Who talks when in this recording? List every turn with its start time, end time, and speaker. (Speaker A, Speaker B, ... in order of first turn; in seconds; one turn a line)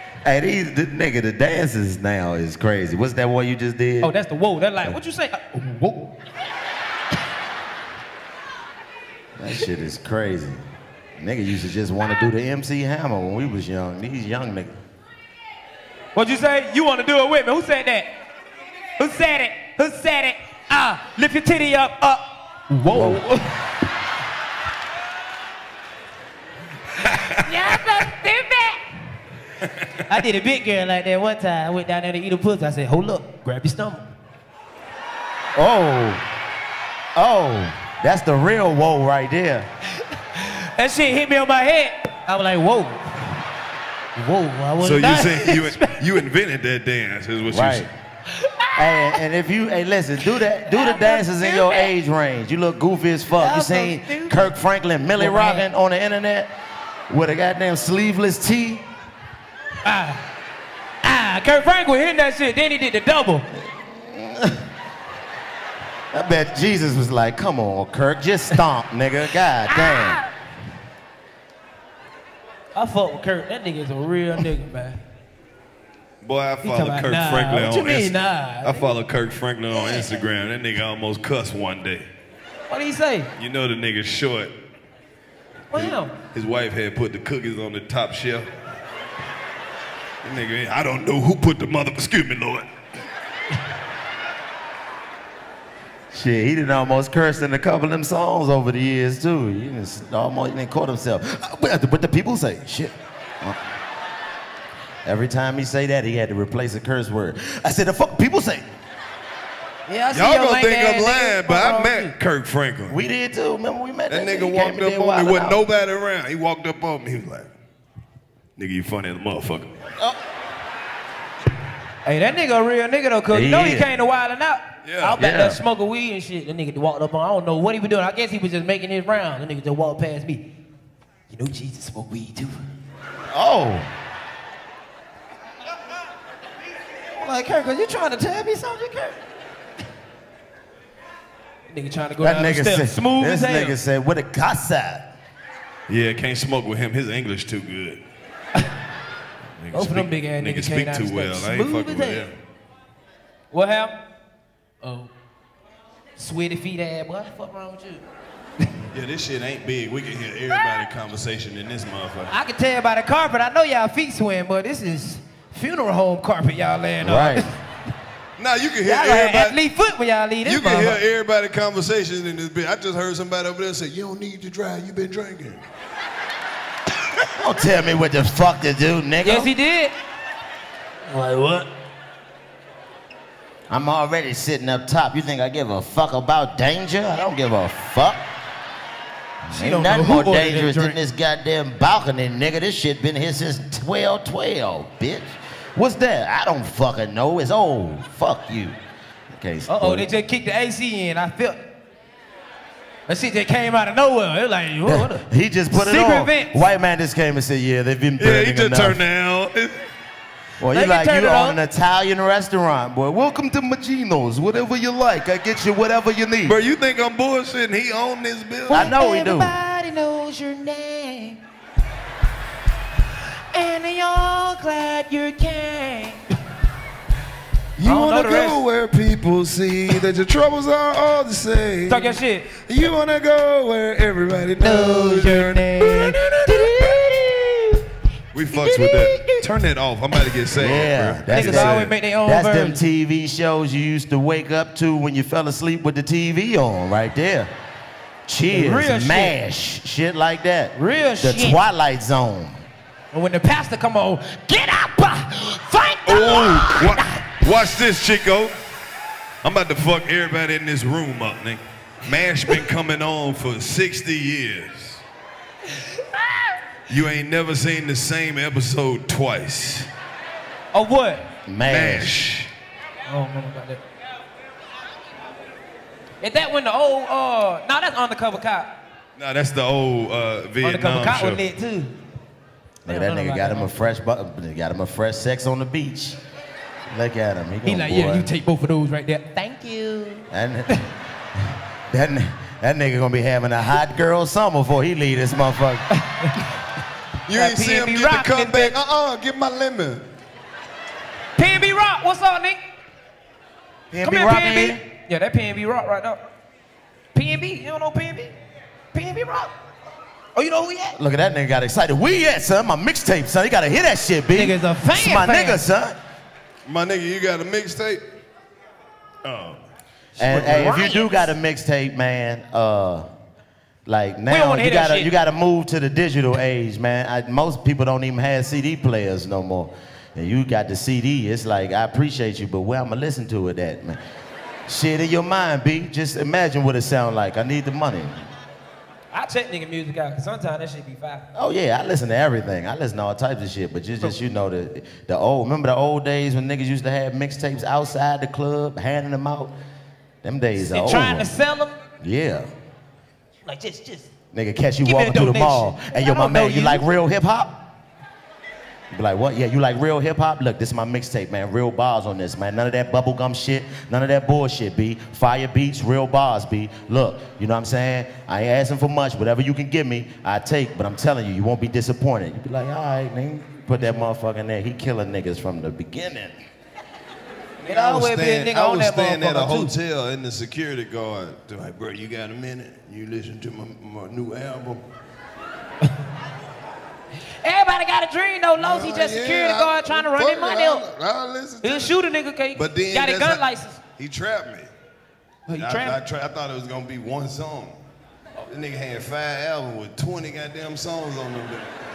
Speaker A: 0.2-4.1
Speaker B: 4.0-6.1
Speaker A: 9.4-10.6
Speaker A: 11.2-14.7
Speaker B: 16.1-18.1
Speaker B: 19.0-23.5
Speaker A: 22.9-23.2
Speaker B: 27.1-28.8
Speaker B: 30.0-34.1
Speaker A: 35.5-36.2
Speaker A: 37.1-39.7
Speaker B: 40.3-43.2
Speaker B: 44.1-46.0
Speaker C: 44.8-47.9
Speaker A: 47.5-47.9
Speaker B: 48.3-49.1
Speaker A: 48.8-56.5
Speaker B: 50.7-51.9
Speaker B: 53.4-54.5
Speaker B: 55.2-55.6
Speaker A: 57.1-58.8
Speaker B: 59.8-60.2
Speaker B: 61.0-63.5
Speaker A: 63.5-64.6
Speaker A: 66.1-70.2
Speaker B: 72.7-75.0
Speaker C: 76.2-82.1
Speaker B: 76.6-79.0
Speaker B: 79.7-80.1
Speaker B: 82.7-83.3
Speaker C: 83.3-84.5
Speaker B: 85.7-86.1
Speaker C: 86.3-88.5
Speaker C: 90.2-92.7
Speaker A: 96.1-103.6
Speaker A: 105.0-108.7
Speaker B: 109.9-112.1
Speaker C: 110.1-113.0
Speaker A: 112.9-115.6
Speaker C: 114.1-117.5
Speaker C: 118.6-119.7
Speaker B: 122.0-130.5
Speaker A: 123.3-123.9
Speaker C: 124.8-125.2
Speaker A: 125.2-125.6
Speaker B: 131.3-132.6
Speaker A: 133.3-133.9
Speaker B: 137.2-139.2
Speaker B: 141.7-143.8
Speaker A: 142.2-145.1
Speaker C: 145.9-148.0
Speaker C: 149.6-152.3
Speaker B: 149.7-152.3
Speaker B: 153.5-154.0
Speaker B: 154.8-155.1
Speaker B: 156.2-158.0
Speaker C: 158.9-162.3
Speaker B: 162.3-167.5
Speaker A: 167.0-167.4
Speaker C: 168.4-169.6
Speaker B: 168.8-171.0
Speaker C: 170.4-175.6
Speaker A: 177.3-179.5
Speaker B: 179.2-179.9
Speaker B: 181.1-181.7
Speaker A: 183.7-188.2
Speaker A: 189.5-198.8
Speaker B: 189.5-191.0
Speaker A: 199.3-200.1
Speaker B: 199.7-201.7
Speaker B: 203.1-206.6
Speaker A: 204.8-209.0
Speaker C: 208.2-209.8
Speaker A: 210.6-216.6
Speaker B: 210.7-211.6
Speaker C: 216.5-218.9
Speaker B: 218.7-221.4
Speaker A: 218.7-219.5
Speaker B: 223.5-226.2
Speaker C: 227.8-237.2
Speaker B: 227.8-228.6
Speaker B: 231.9-232.5
Speaker B: 234.6-237.7
Speaker C: 238.3-241.8
Speaker B: 238.5-239.4
Speaker A: 240.6-247.5
Speaker B: 241.3-242.8
Speaker A: 248.2-252.6
Speaker B: 248.5-249.3
Speaker B: 250.7-251.6
Speaker B: 253.1-257.2
Speaker C: 256.1-258.5
Speaker C: 259.4-265.0
Speaker C: 266.9-269.9
Speaker B: 270.7-271.3
Speaker A: 271.4-272.1
Speaker C: 271.7-272.5
Speaker B: 273.1-273.8
Speaker B: 276.2-278.7
Speaker C: 279.2-281.4
Speaker B: 280.6-281.9
Speaker A: 282.8-286.2
Speaker B: 282.9-283.9
Speaker A: 286.9-288.3
Speaker B: 287.6-290.8
Speaker A: 290.3-290.8
Speaker A: 291.4-295.8
Speaker B: 296.0-296.3
Speaker C: 297.3-300.0
Speaker B: 297.3-298.7
Speaker B: 301.4-302.6
Speaker A: 303.9-304.8
Speaker B: 304.0-306.2
Speaker B: 307.1-308.3
Speaker B: 308.9-309.5
Speaker B: 310.4-311.0
Speaker A: 310.9-316.0
Speaker B: 314.3-315.6
Speaker C: 316.6-318.0
Speaker C: 319.2-319.6
Speaker B: 320.2-321.3
Speaker A: 320.2-323.1
Speaker A: 323.9-334.0
Speaker B: 324.3-325.1
Speaker A: 334.7-338.2
Speaker B: 339.1-341.2
Speaker A: 341.3-349.5
Speaker A: 350.2-351.3
Speaker B: 350.6-351.8
Speaker A: 352.0-352.5
Speaker B: 353.4-354.1
Speaker A: 354.3-357.6
Speaker B: 354.8-356.8
Speaker A: 358.9-376.4
Speaker C: 377.6-384.8
Speaker B: 377.6-379.7
Speaker B: 387.4-390.8
Speaker C: 388.6-393.4
Speaker B: 391.6-393.8
Speaker C: 394.0-394.7
Speaker B: 395.5-396.0
Speaker C: 395.6-397.8
Speaker C: 398.5-401.7